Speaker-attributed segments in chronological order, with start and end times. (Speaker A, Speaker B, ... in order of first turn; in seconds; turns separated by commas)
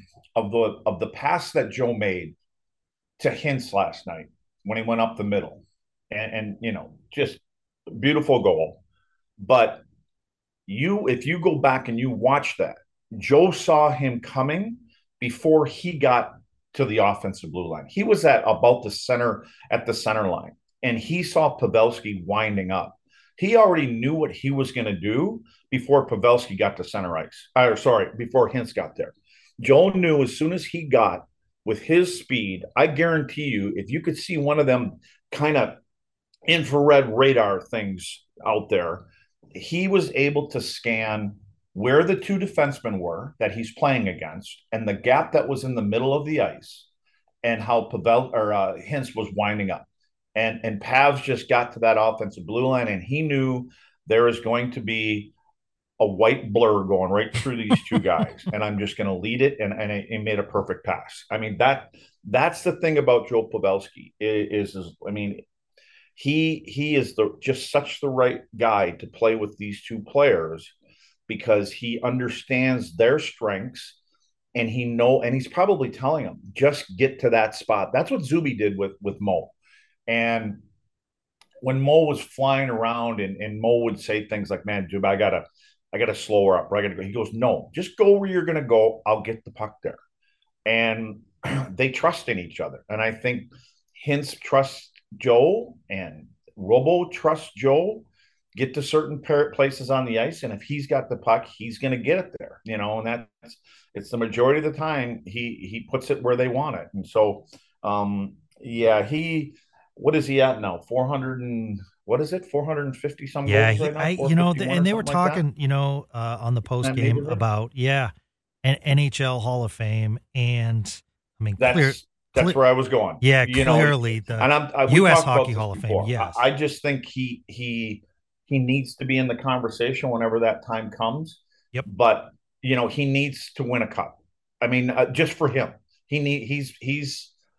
Speaker A: 0.3-2.4, Speaker A: 3.2-8.8, Speaker A: 9.4-9.8, Speaker A: 10.7-35.8, Speaker A: 36.5-46.9, Speaker A: 47.4-55.3, Speaker A: 56.0-65.4, Speaker A: 66.2-70.7, Speaker A: 71.3-74.0, Speaker A: 74.5-79.5, Speaker A: 80.1-80.6, Speaker A: 81.6-90.0, Speaker A: 90.6-115.4, Speaker B: 113.5-118.1, Speaker A: 116.8-117.4, Speaker B: 118.6-122.6, Speaker A: 121.6-137.3, Speaker B: 123.2-126.4